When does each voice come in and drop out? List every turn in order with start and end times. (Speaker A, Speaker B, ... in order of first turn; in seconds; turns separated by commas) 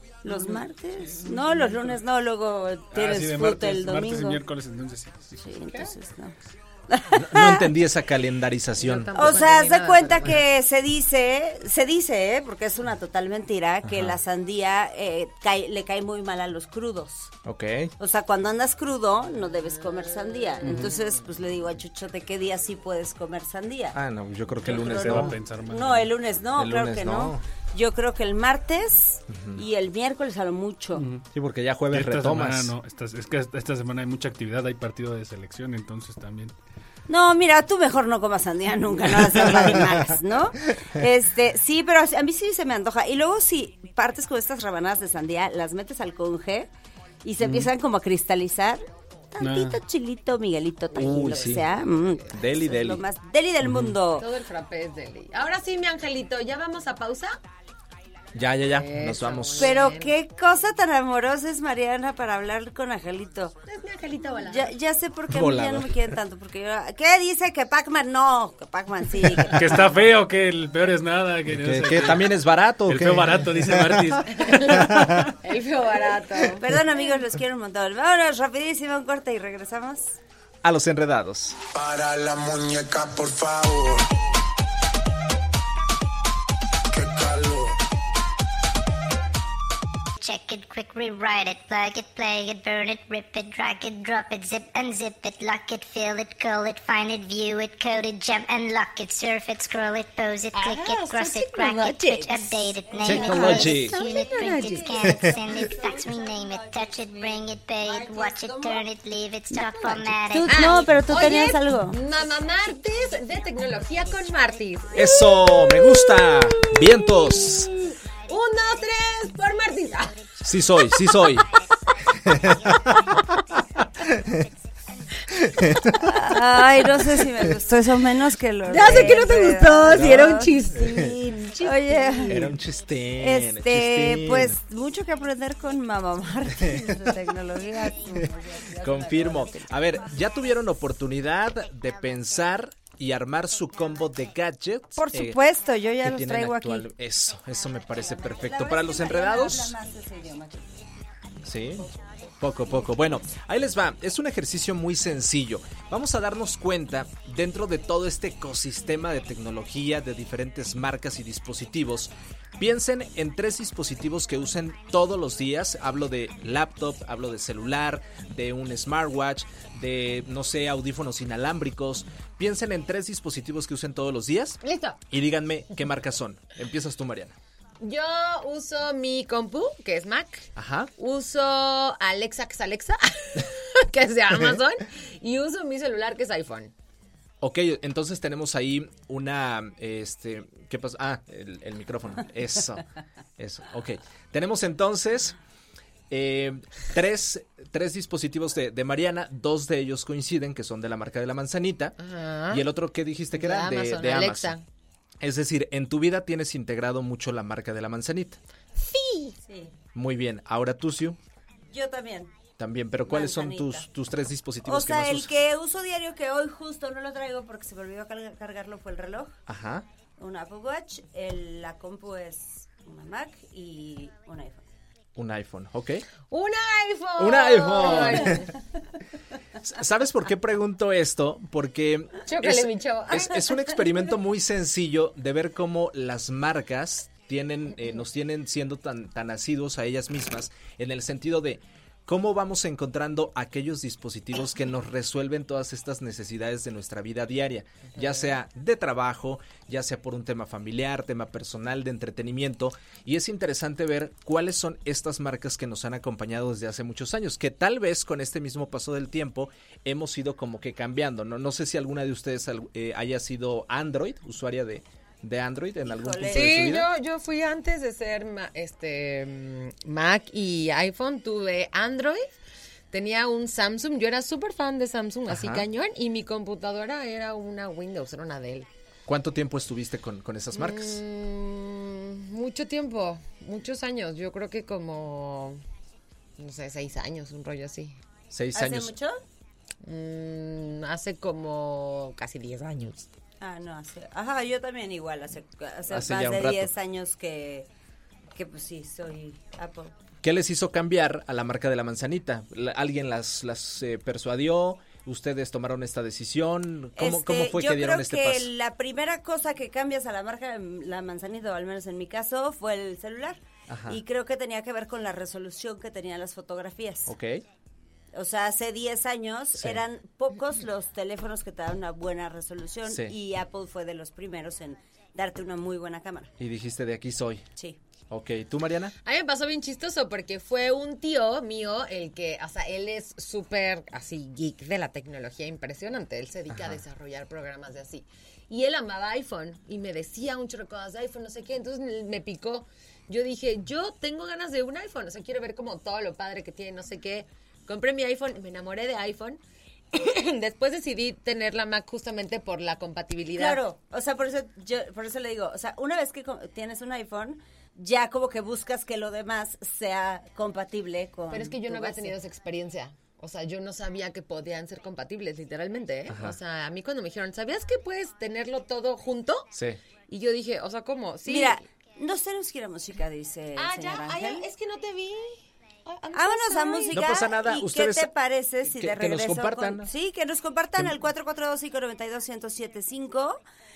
Speaker A: 0.2-4.4, Speaker B: 0.3-1.9, Speaker C: 2.9-5.4, Speaker A: 5.4-6.3, Speaker A: 6.9-7.7, Speaker D: 7.1-9.3, Speaker B: 8.8-10.4, Speaker A: 9.2-17.3, Speaker D: 13.8-14.2, Speaker D: 17.4-17.9, Speaker A: 18.0-24.0, Speaker B: 19.8-21.1, Speaker C: 20.6-20.9, Speaker D: 23.9-25.4, Speaker C: 24.6-26.1, Speaker A: 24.7-31.1, Speaker D: 26.6-27.4, Speaker D: 29.3-29.6, Speaker C: 30.9-31.3, Speaker D: 31.3-32.7, Speaker C: 31.9-36.5, Speaker A: 37.1-46.7, Speaker A: 47.2-54.3, Speaker C: 49.4-49.8, Speaker D: 51.0-51.7, Speaker B: 51.0-52.3, Speaker D: 52.3-53.0, Speaker C: 53.7-53.9, Speaker B: 54.2-57.4, Speaker D: 58.4-59.8, Speaker B: 58.7-60.2, Speaker A: 59.6-63.6, Speaker B: 63.7-64.8, Speaker A: 64.4-70.0, Speaker D: 65.3-66.0, Speaker C: 69.5-75.3, Speaker D: 71.5-74.2, Speaker B: 74.3-76.6, Speaker D: 74.8-75.3, Speaker A: 76.6-80.2, Speaker D: 80.6-81.6, Speaker E: 81.7-84.1, Speaker E: 86.9-87.8, Speaker F: 90.2-110.9, Speaker B: 100.5-105.9, Speaker A: 102.9-108.8, Speaker D: 103.0-104.0, Speaker A: 109.5-112.0, Speaker B: 109.8-120.2, Speaker D: 114.9-117.7, Speaker D: 120.4-121.5, Speaker D: 122.3-122.9, Speaker D: 124.1-124.4, Speaker D: 125.4-126.0, Speaker A: 126.0-130.5, Speaker B: 128.7-132.6, Speaker D: 129.9-131.2, Speaker A: 131.6-132.6, Speaker D: 132.3-134.6, Speaker A: 133.2-140.0, Speaker D: 136.6-136.9, Speaker D: 138.8-145.4, Speaker A: 144.9-146.9, Speaker D: 146.0-149.8, Speaker A: 148.0-150.7, Speaker D: 151.4-151.9, Speaker D: 152.4-174.6, Speaker B: 174.6-175.0, Speaker D: 175.1-177.3, Speaker B: 177.8-186.7, Speaker D: 180.6-180.9, Speaker D: 187.4-192.8, Speaker D: 193.4-195.4, Speaker D: 196.1-202.0, Speaker B: 202.0-202.7, Speaker D: 202.5-204.6, Speaker B: 203.3-204.6, Speaker D: 205.2-208.4, Speaker B: 208.8-209.4, Speaker A: 209.5-209.8, Speaker D: 209.9-211.2, Speaker A: 211.7-212.3, Speaker D: 212.6-215.3, Speaker A: 213.1-213.9, Speaker A: 214.6-219.4, Speaker D: 219.5-219.9, Speaker A: 220.2-224.6, Speaker D: 225.2-226.1, Speaker B: 226.3-228.5, Speaker D: 227.2-228.5, Speaker D: 229.6-266.9, Speaker B: 232.3-233.7, Speaker A: 265.8-266.8, Speaker B: 266.3-272.3, Speaker B: 272.9-278.7, Speaker D: 275.3-275.6, Speaker D: 279.1-281.0, Speaker B: 280.5-285.6, Speaker B: 286.4-288.0, Speaker D: 288.3-289.0, Speaker A: 288.5-289.2, Speaker B: 289.8-293.1, Speaker A: 293.4-297.7, Speaker D: 295.9-296.7, Speaker A: 298.3-299.9, Speaker D: 300.2-308.5, Speaker A: 307.0-317.1, Speaker D: 313.7-314.0, Speaker D: 317.1-317.4, Speaker A: 318.1-326.3, Speaker D: 322.9-323.1, Speaker D: 326.4-327.5, Speaker D: 328.1-328.9, Speaker B: 329.0-349.4, Speaker D: 336.5-336.8, Speaker B: 349.9-353.6, Speaker A: 353.4-362.2, Speaker B: 361.3-369.5, Speaker D: 366.1-366.4, Speaker D: 369.5-369.8, Speaker B: 370.1-371.6, Speaker A: 371.2-374.5, Speaker B: 373.6-377.0, Speaker A: 376.1-383.4, Speaker D: 376.9-378.1, Speaker D: 378.7-379.9